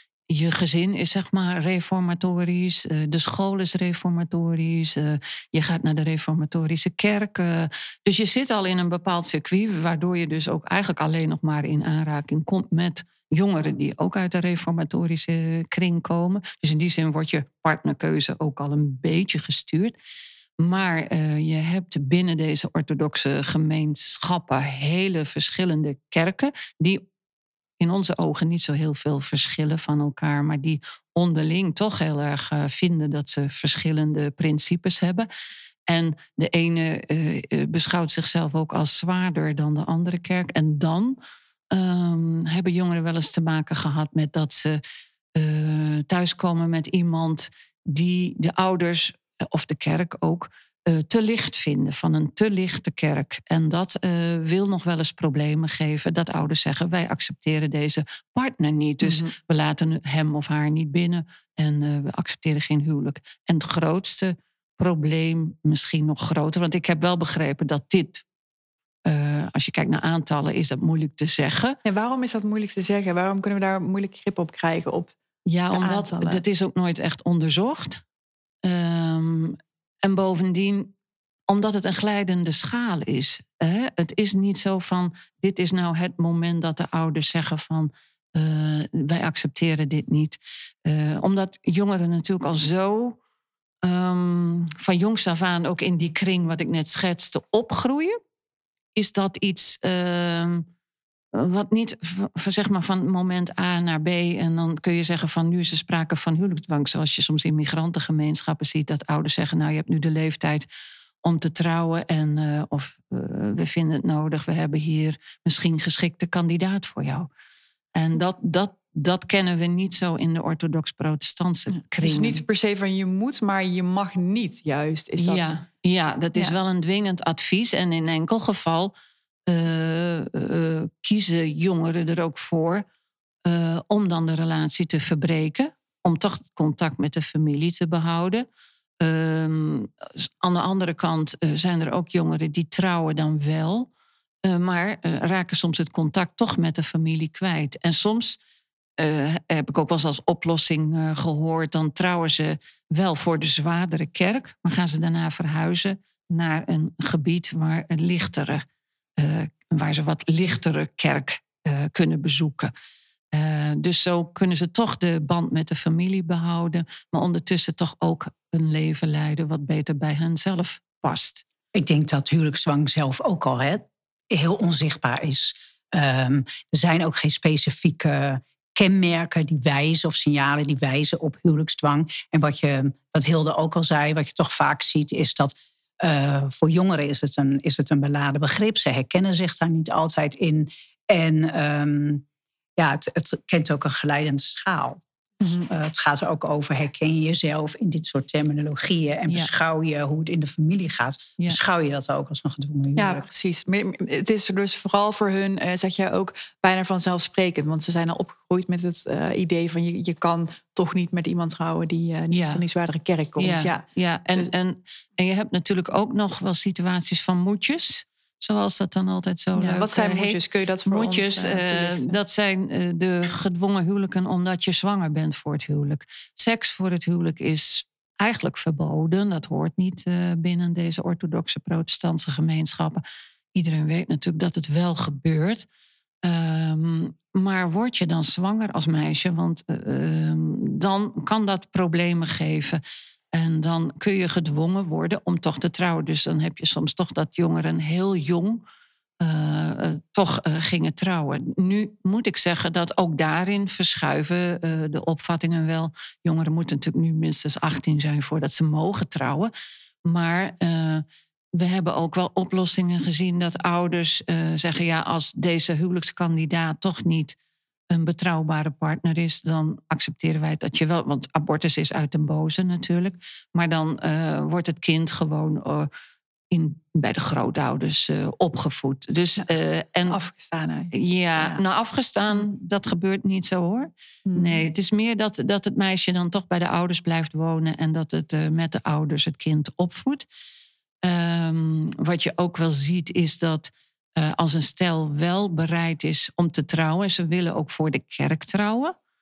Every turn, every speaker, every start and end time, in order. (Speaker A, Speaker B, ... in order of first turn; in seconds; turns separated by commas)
Speaker A: 0.3-20.0, Speaker A: 20.6-27.0, Speaker A: 27.8-35.3, Speaker A: 35.9-41.2, Speaker A: 41.7-44.8, Speaker A: 45.4-68.2, Speaker B: 59.0-59.3, Speaker A: 69.1-71.8, Speaker B: 71.8-75.2, Speaker A: 75.5-78.0, Speaker B: 75.7-76.4, Speaker A: 78.6-80.9, Speaker A: 81.5-93.2, Speaker A: 93.8-98.2, Speaker A: 99.0-100.7, Speaker A: 101.3-110.7, Speaker A: 111.2-117.3, Speaker A: 118.0-122.4, Speaker B: 121.8-125.6, Speaker A: 125.2-128.9, Speaker A: 129.5-132.8, Speaker A: 133.5-138.5, Speaker A: 139.0-143.9, Speaker A: 144.4-148.4, Speaker A: 149.0-158.7, Speaker A: 159.2-162.7, Speaker A: 163.3-171.4, Speaker C: 171.7-192.2, Speaker C: 192.8-195.0, Speaker B: 195.4-195.7, Speaker C: 195.7-203.3, Speaker B: 203.0-214.5, Speaker A: 212.3-212.6, Speaker A: 213.4-233.0, Speaker B: 219.6-222.2, Speaker A: 233.5-235.7, Speaker A: 236.2-242.8, Speaker A: 243.3-248.6, Speaker A: 249.2-259.5, Speaker A: 260.1-267.4, Speaker A: 267.9-275.9, Speaker A: 276.5-280.2, Speaker B: 280.1-281.6, Speaker A: 280.9-290.3, Speaker B: 284.3-284.7, Speaker A: 291.0-298.9